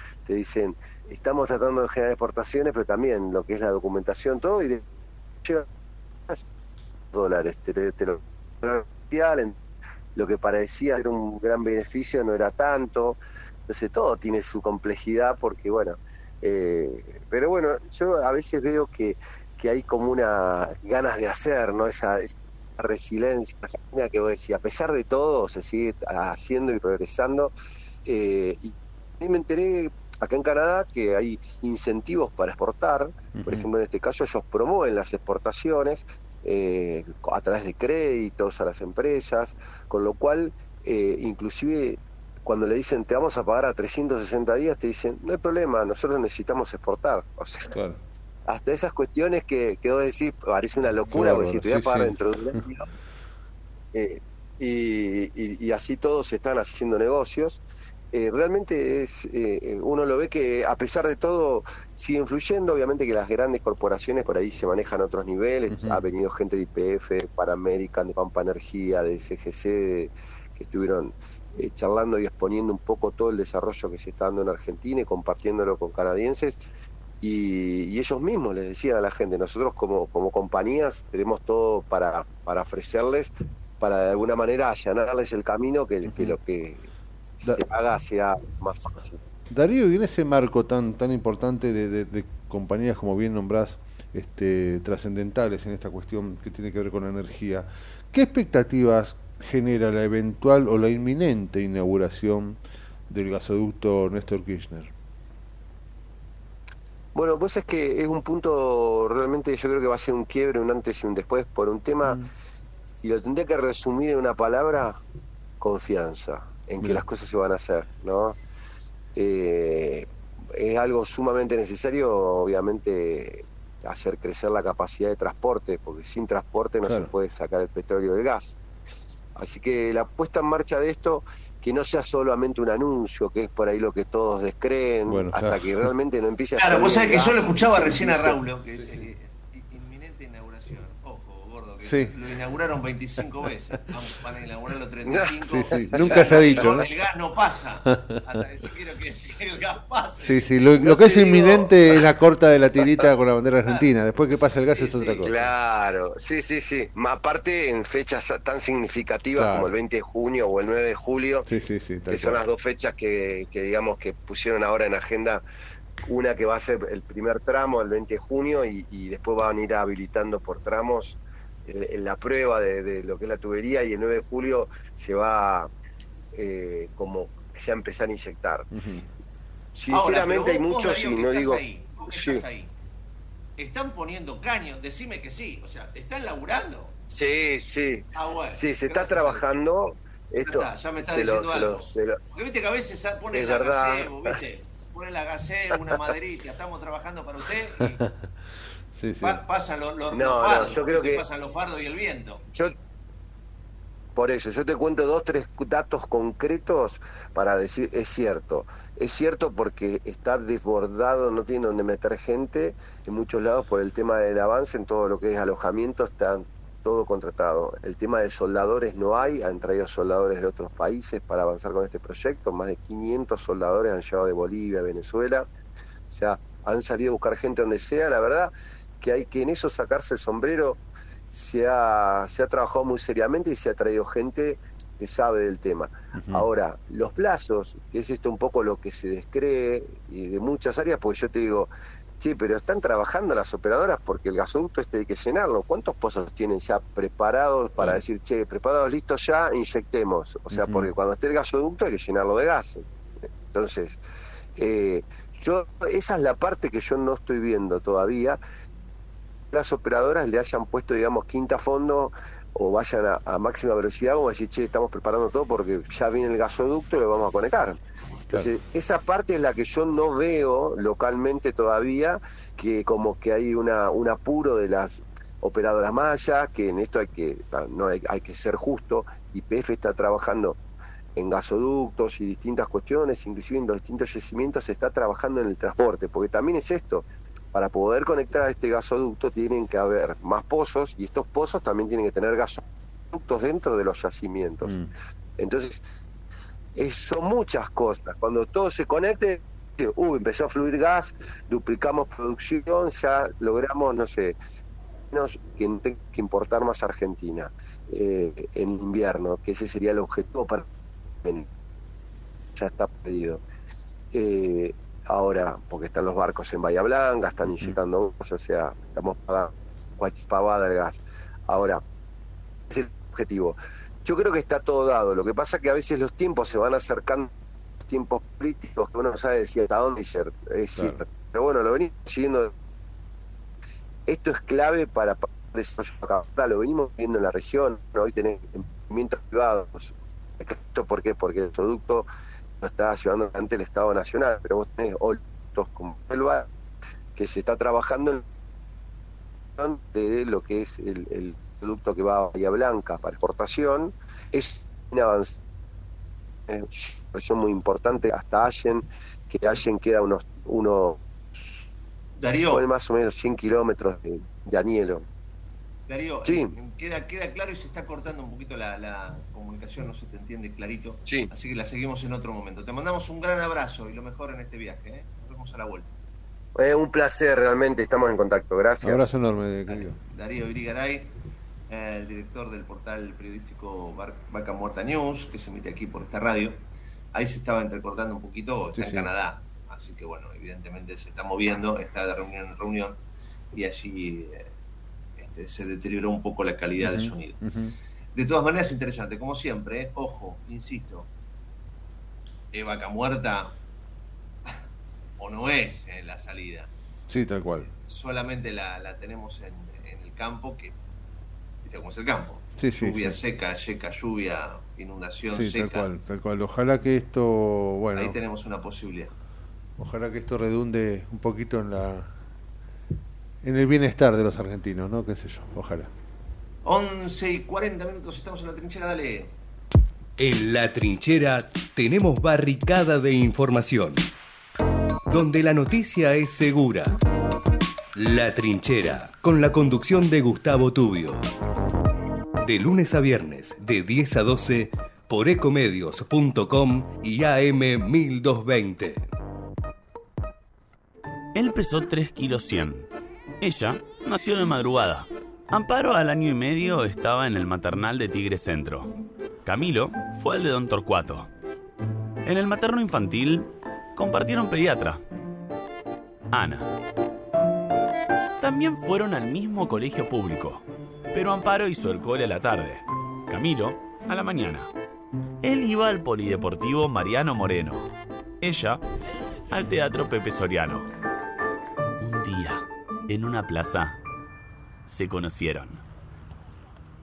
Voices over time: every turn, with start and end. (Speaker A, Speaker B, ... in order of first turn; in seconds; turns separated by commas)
Speaker A: 0.3-4.8, Speaker A: 7.1-9.5, Speaker A: 10.2-27.5, Speaker A: 28.1-47.7, Speaker B: 33.3-33.6, Speaker B: 47.7-48.0, Speaker A: 48.5-52.8, Speaker B: 51.0-52.1, Speaker A: 53.9-57.6, Speaker A: 58.1-76.6, Speaker B: 65.7-66.0, Speaker A: 77.2-86.9, Speaker B: 86.0-86.3, Speaker A: 87.4-89.2, Speaker B: 89.5-102.6, Speaker B: 103.1-104.9, Speaker A: 107.1-112.2, Speaker A: 113.0-115.0, Speaker A: 115.6-118.3, Speaker A: 119.2-128.6, Speaker A: 129.3-138.4, Speaker B: 135.1-135.7, Speaker C: 136.6-151.7, Speaker B: 141.8-142.1, Speaker B: 145.4-146.9, Speaker A: 145.8-146.8, Speaker B: 147.8-148.2, Speaker B: 150.2-155.3, Speaker C: 154.7-155.4, Speaker A: 155.2-161.4, Speaker B: 159.3-159.7, Speaker B: 161.4-162.4, Speaker A: 162.1-165.4, Speaker A: 166.0-175.7, Speaker A: 176.3-178.7, Speaker B: 178.7-179.1, Speaker A: 179.7-182.4, Speaker C: 179.9-182.7, Speaker C: 183.6-186.9, Speaker A: 187.1-188.0, Speaker C: 188.1-189.5, Speaker A: 188.6-192.2, Speaker C: 190.4-198.0, Speaker A: 193.3-194.3, Speaker B: 197.8-198.3, Speaker B: 198.9-199.4, Speaker C: 199.2-202.4, Speaker A: 200.1-201.2, Speaker A: 204.2-225.5, Speaker A: 226.1-230.8, Speaker A: 231.3-252.8, Speaker B: 236.2-236.4, Speaker B: 250.5-250.9, Speaker A: 253.5-254.0, Speaker A: 254.6-258.4, Speaker A: 259.5-267.8, Speaker A: 268.3-280.6, Speaker A: 281.1-292.6, Speaker A: 293.1-294.8, Speaker A: 295.4-295.8, Speaker A: 296.8-304.4, Speaker A: 305.1-310.6, Speaker A: 312.6-313.4, Speaker A: 314.1-321.8, Speaker B: 317.5-317.7, Speaker A: 322.7-327.3, Speaker A: 327.9-332.5, Speaker A: 334.1-342.1, Speaker A: 342.6-346.4, Speaker A: 347.1-348.2, Speaker A: 349.6-355.4, Speaker A: 356.5-361.6, Speaker C: 362.2-362.6, Speaker A: 362.5-365.0, Speaker C: 365.9-375.9, Speaker A: 366.2-366.5, Speaker A: 376.6-379.0, Speaker B: 378.8-380.0, Speaker C: 379.7-381.1, Speaker C: 381.7-386.6, Speaker C: 387.1-393.0, Speaker B: 388.7-389.1, Speaker C: 393.5-394.5, Speaker C: 395.2-397.4, Speaker B: 396.8-397.7, Speaker C: 398.1-401.1, Speaker C: 402.5-403.5, Speaker C: 405.2-406.7, Speaker B: 407.1-407.7, Speaker C: 407.7-410.7, Speaker C: 411.6-415.9, Speaker B: 412.6-413.2, Speaker B: 415.3-418.2, Speaker C: 417.9-419.1, Speaker B: 419.8-422.1, Speaker B: 423.4-425.9, Speaker C: 426.6-429.3, Speaker D: 430.2-434.0, Speaker D: 435.1-437.0, Speaker D: 437.9-441.2, Speaker D: 442.4-449.1, Speaker E: 451.3-452.9, Speaker E: 453.4-458.9, Speaker E: 459.4-461.3, Speaker E: 462.2-465.0, Speaker E: 466.3-466.7, Speaker E: 468.4-474.7, Speaker E: 475.4-478.8, Speaker E: 479.5-480.9, Speaker E: 482.0-484.0, Speaker E: 484.9-485.8